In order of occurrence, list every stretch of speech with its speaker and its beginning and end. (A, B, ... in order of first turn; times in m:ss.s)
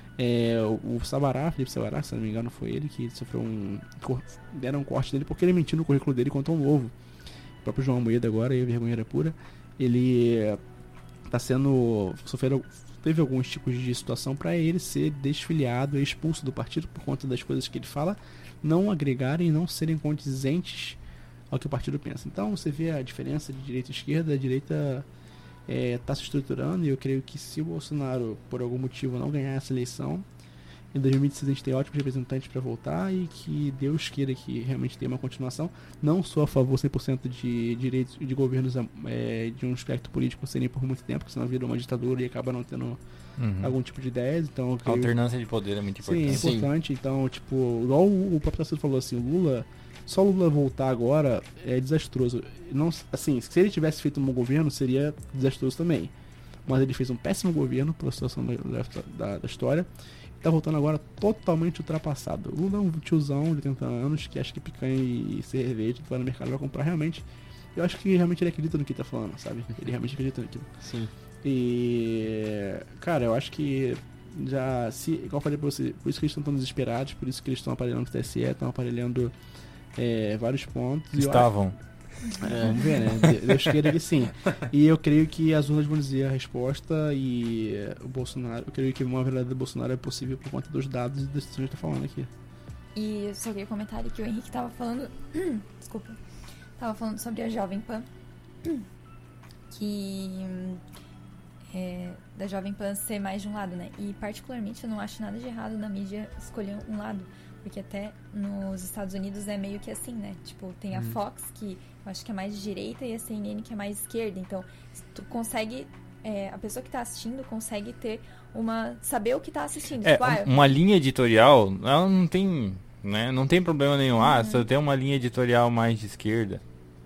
0:00.2-0:06.9 A
0:07.6-0:10.6 A
0:11.3-0:21.0 A
0:21.5-0:25.0 A
0:25.7-0:30.2 A
0:30.9-0:43.0 A
0:43.4-0:43.7 B
0:43.6-0:45.1 A
0:44.8-0:46.4 B
0:46.0-0:56.1 A
0:46.3-0:46.7 C
0:56.6-0:59.9 A
1:00.4-1:07.2 A
1:07.7-1:10.7 A
1:10.8-1:11.1 C
1:11.4-1:19.3 A
1:20.0-1:21.5 A
1:21.1-1:21.8 B
1:22.4-1:32.3 A
1:22.4-1:23.4 C
1:32.9-1:36.2 D
1:36.8-1:38.1 D
1:39.7-1:40.8 D
1:41.7-2:00.5 D
1:50.9-1:51.2 C
2:00.0-2:06.6 B
2:04.2-2:04.6 D